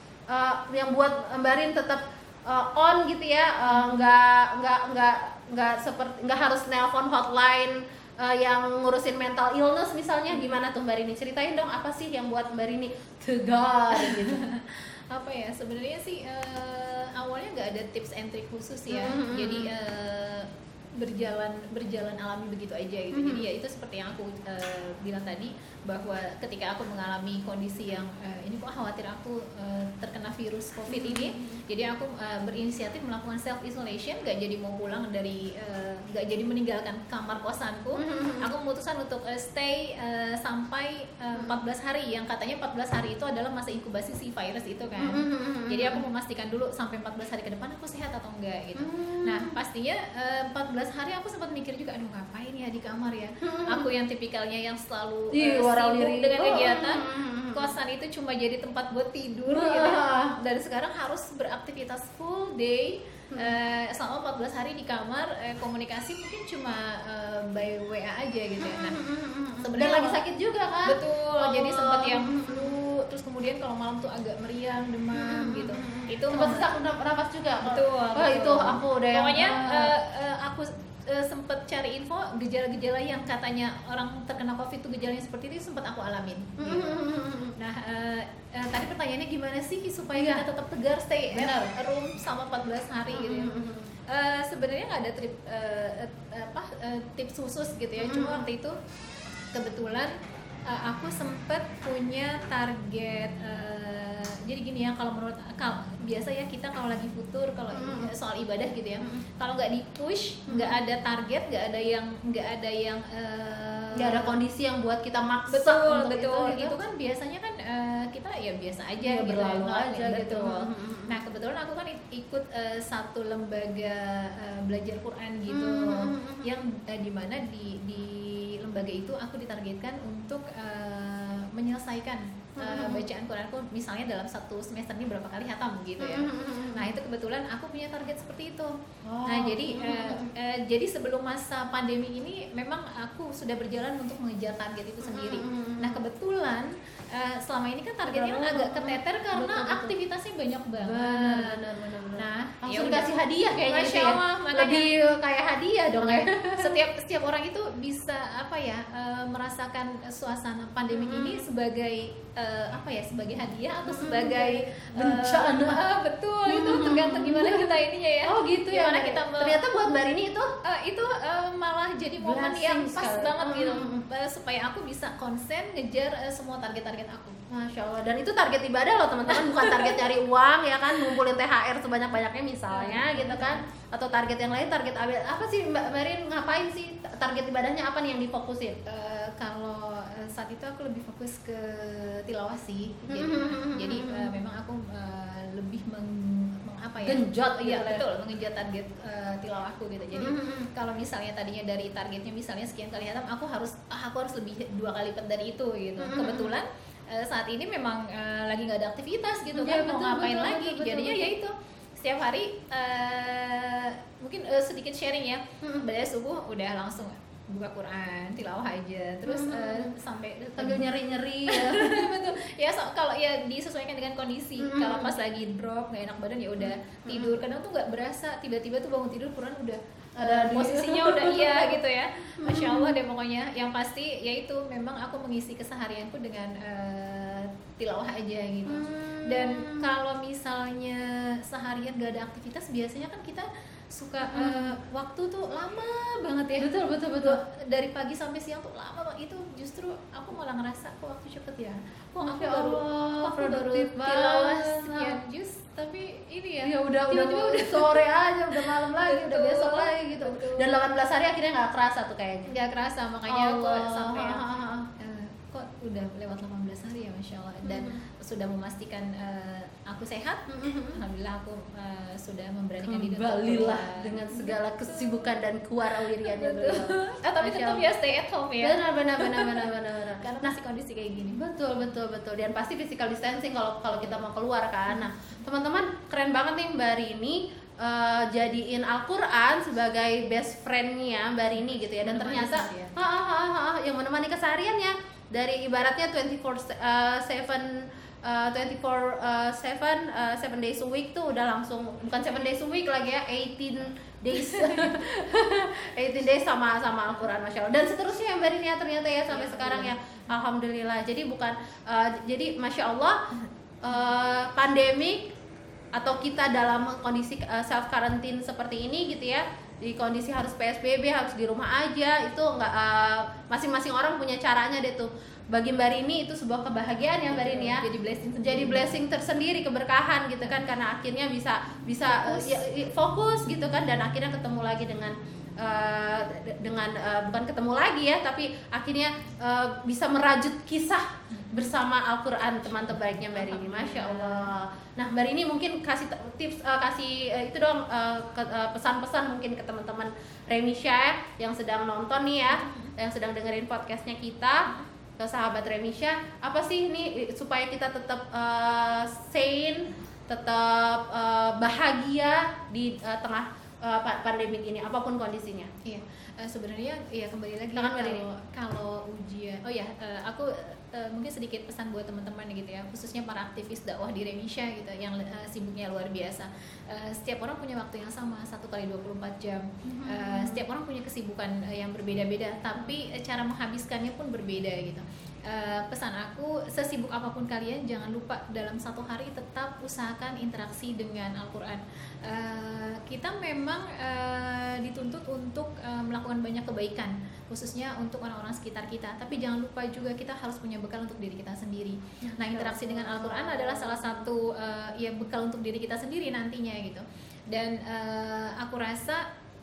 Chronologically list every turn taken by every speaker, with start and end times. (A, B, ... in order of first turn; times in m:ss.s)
0:00.3-0:14.4 A
0:03.7-0:04.1 B
0:13.9-1:09.0 B
0:18.9-0:19.7 A
0:23.1-0:23.5 A
0:30.9-0:31.6 A
0:38.0-0:38.5 A
0:45.0-0:46.0 A
0:48.8-0:49.5 A
0:53.4-0:53.9 A
0:55.3-0:57.7 A
0:59.5-1:00.4 A
1:08.6-1:12.7 A
1:09.6-1:10.2 B
1:10.8-1:16.7 B
1:15.1-1:19.9 A
1:17.6-1:27.0 B
1:26.6-1:27.6 A
1:27.6-1:33.6 B
1:30.1-1:30.4 A
1:31.3-1:31.8 A
1:33.1-1:33.9 A
1:34.1-1:38.8 B
1:38.0-1:38.4 A
1:39.5-1:40.1 B
1:40.7-1:54.3 B
1:47.7-1:48.1 A
1:50.5-1:50.7 A
1:54.0-1:56.8 A
1:55.5-2:18.7 B
1:59.0-2:01.2 A
2:05.5-2:06.5 A
2:12.6-2:13.1 A
2:16.0-2:16.9 A
2:19.0-2:20.3 A
2:19.2-2:31.6 B
2:25.0-2:26.0 A
2:28.0-2:29.9 A
2:30.8-2:36.8 A
2:32.2-2:33.1 B
2:33.7-2:34.9 B
2:36.0-2:49.6 B
2:40.9-2:41.4 A
2:43.8-2:45.8 A
2:46.5-2:50.5 A
2:50.6-2:57.4 B
2:52.2-2:54.0 A
2:57.5-3:08.8 A
2:59.3-3:00.0 B
3:02.7-3:03.6 B
3:08.9-3:40.8 B
3:13.1-3:14.3 A
3:17.0-3:18.0 A
3:20.1-3:20.7 A
3:26.0-3:26.6 A
3:29.5-3:31.3 A
3:35.6-3:35.9 A
3:39.2-3:39.9 A
3:40.6-3:42.2 A
3:41.5-4:20.8 B
3:44.6-3:45.1 A
3:46.6-3:47.4 A
3:50.2-3:51.8 A
3:52.4-3:53.0 A
3:58.7-3:59.9 A
4:04.2-4:04.8 A
4:06.6-4:07.4 A
4:12.2-4:15.2 A
4:16.6-4:22.5 A
4:22.5-4:24.4 B
4:23.3-4:24.9 A
4:25.0-4:35.3 B
4:27.6-4:28.0 A
4:30.5-4:31.0 A
4:32.8-4:37.9 A
4:35.8-4:39.7 B
4:38.6-4:40.6 A
4:40.2-4:41.4 B
4:41.3-4:57.7 A
4:43.9-4:44.2 B
4:51.6-4:53.0 B
4:58.2-5:13.2 A
5:04.3-5:04.9 B
5:09.3-5:09.9 B
5:13.8-5:15.3 A
5:15.9-5:27.8 A
5:27.3-5:29.0 B
5:28.4-5:54.6 A
5:32.1-5:32.6 B
5:41.3-5:41.7 B
5:42.8-5:44.5 B
5:52.5-5:52.9 B
5:55.2-6:05.7 A
6:05.8-6:49.2 B
6:07.7-6:08.2 A
6:19.8-6:20.6 A
6:42.2-6:44.3 A